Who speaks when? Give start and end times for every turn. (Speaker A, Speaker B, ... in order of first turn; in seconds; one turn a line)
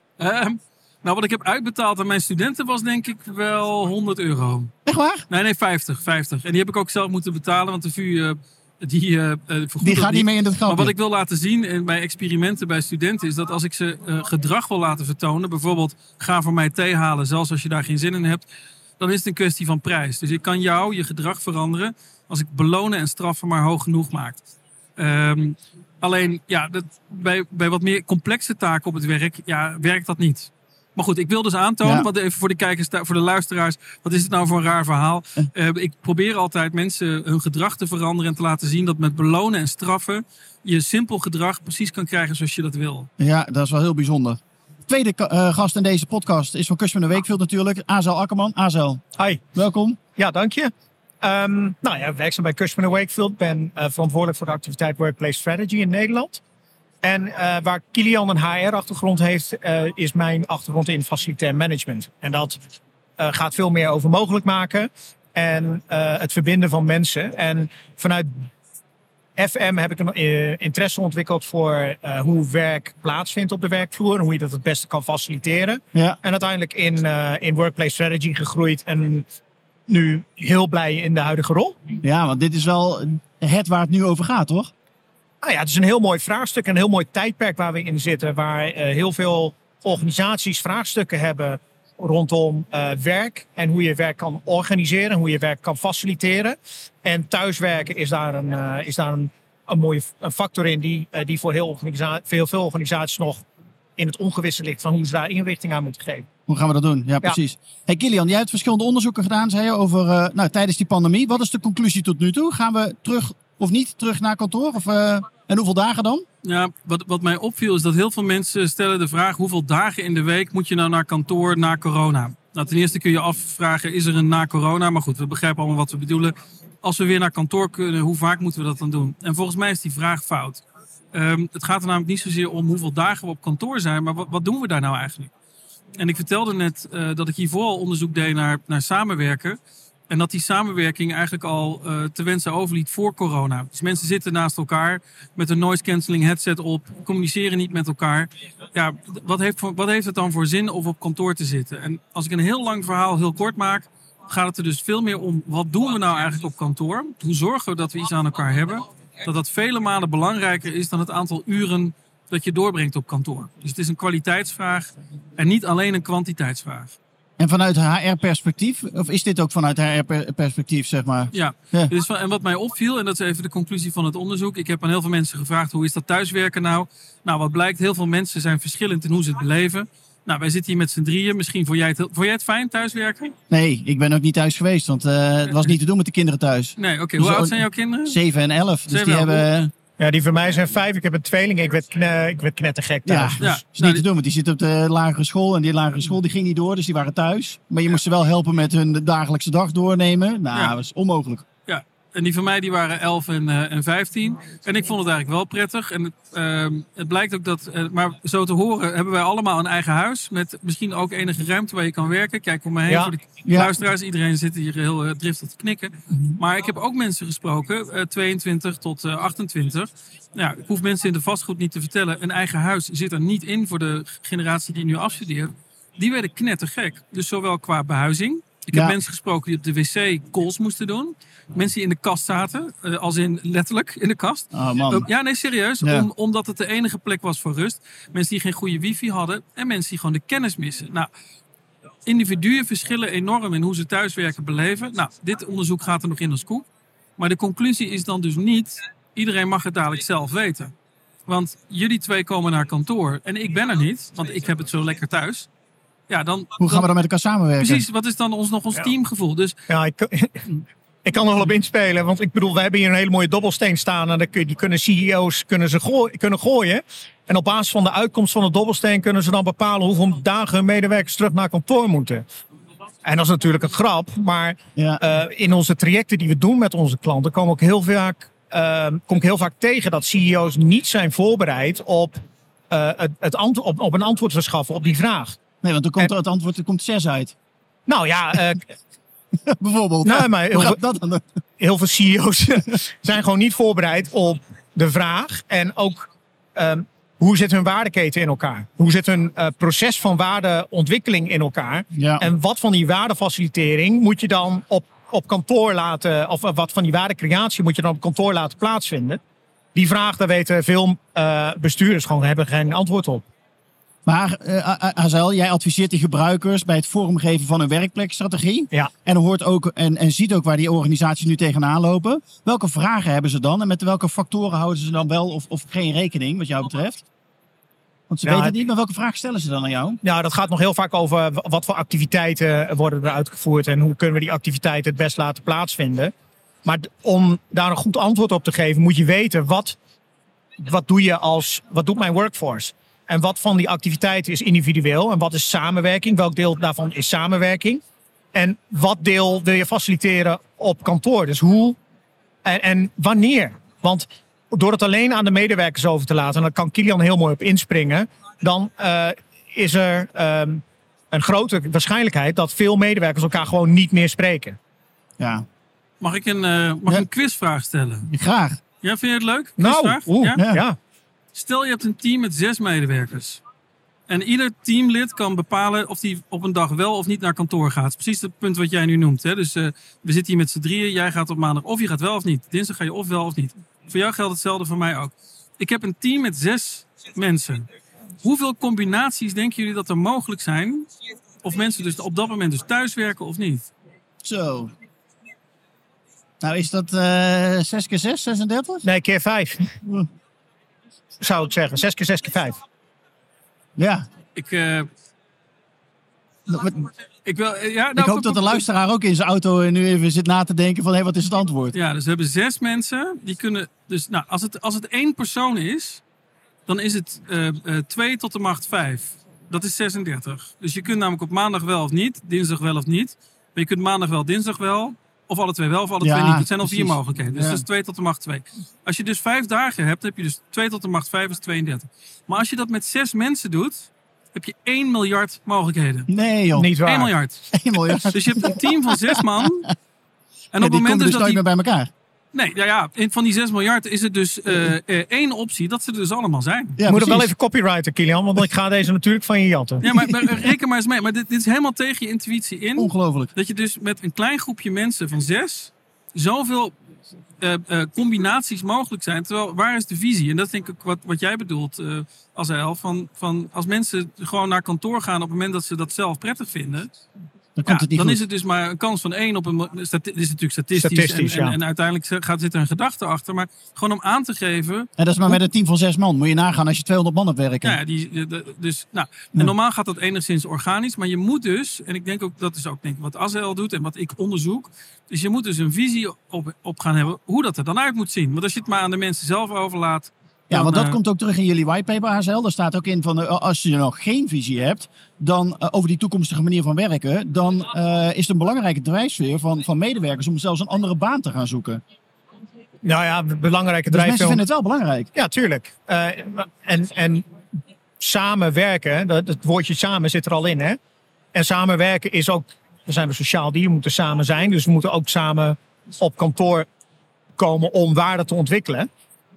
Speaker A: 0.2-4.7
Speaker B: 4.8-5.2
Speaker A: 5.3-18.4
Speaker B: 9.8-10.9
Speaker A: 19.0-24.4
Speaker A: 25.0-43.1
Speaker B: 31.8-32.1
Speaker B: 43.2-49.0
Speaker C: 49.2-49.4
Speaker B: 49.5-50.0
Speaker C: 50.2-56.4
Speaker C: 57.0-62.6
Speaker C: 63.2-68.3
Speaker C: 69.3-79.2
Speaker C: 79.9-81.8
Speaker B: 82.0-84.7
Speaker C: 85.4-103.4
Speaker C: 104.0-106.3
Speaker B: 106.5-116.2
Speaker A: 116.4-135.3
Speaker A: 136.0-139.6
Speaker A: 140.1-166.9
Speaker B: 167.4-171.9
Speaker A: 171.3-183.3
Speaker B: 183.5-189.7
Speaker A: 186.8-188.2
Speaker A: 188.9-189.4
Speaker C: 190.0-193.5
Speaker B: 193.1-201.4
Speaker A: 193.4-194.0
Speaker A: 201.7-241.1
Speaker C: 212.9-213.1
Speaker B: 213.4-213.7
Speaker B: 234.5-235.1
Speaker B: 235.8-236.1
Speaker A: 242.1-250.7
Speaker A: 251.3-255.5
Speaker A: 256.1-256.9
Speaker B: 256.6-257.8
Speaker A: 257.6-259.6
Speaker C: 259.7-260.5
Speaker C: 261.0-272.2
Speaker C: 273.0-285.4
Speaker B: 274.8-275.0
Speaker B: 285.6-287.3
Speaker C: 287.9-288.7
Speaker B: 289.4-291.2
Speaker C: 290.0-290.8
Speaker C: 291.6-309.2
Speaker B: 301.9-302.3
Speaker C: 309.7-313.2
Speaker B: 314.1-327.0
Speaker B: 328.1-330.0
Speaker C: 328.2-328.5
Speaker C: 330.0-336.1
Speaker C: 336.6-339.8
Speaker C: 340.6-347.8
Speaker C: 348.3-351.8
Speaker C: 352.4-364.6
Speaker B: 365.2-365.4
Speaker A: 366.0-368.1
Speaker B: 368.1-368.6
Speaker A: 368.8-370.4
Speaker C: 369.6-370.8
Speaker B: 370.4-370.6
Speaker A: 371.3-373.4
Speaker A: 374.1-387.6
Speaker A: 388.2-390.9
Speaker A: 391.4-393.7
Speaker B: 394.2-394.7
Speaker B: 396.4-398.8
Speaker C: 398.8-399.8
Speaker C: 401.2-402.6
Speaker B: 403.8-404.1
Speaker A: 404.3-404.9
Speaker B: 406.5-406.8
Speaker A: 407.2-408.6
Speaker B: 408.0-411.7
Speaker A: 411.7-416.0
Speaker A: 416.7-436.1
Speaker B: 426.0-427.6
Speaker B: 436.1-436.7
Speaker C: 436.5-437.1
Speaker A: 436.8-437.5
Speaker B: 437.5-439.7
Speaker A: 438.0-439.7
Speaker A: 440.5-441.4
Speaker B: 440.6-441.9
Speaker A: 442.3-446.8
Speaker B: 446.8-447.3
Speaker C: 446.9-449.9
Speaker A: 449.8-456.7
Speaker B: 452.8-453.3
Speaker A: 457.4-466.9
Speaker B: 467.6-468.2
Speaker A: 467.6-474.9
Speaker C: 470.7-471.6
Speaker B: 475.0-477.8
Speaker A: 477.6-491.0
Speaker B: 490.5-501.8
Speaker C: 502.8-504.4
Speaker B: 503.9-505.1
Speaker C: 505.1-507.2
Speaker C: 508.0-510.8
Speaker C: 511.3-516.7
Speaker C: 517.4-518.9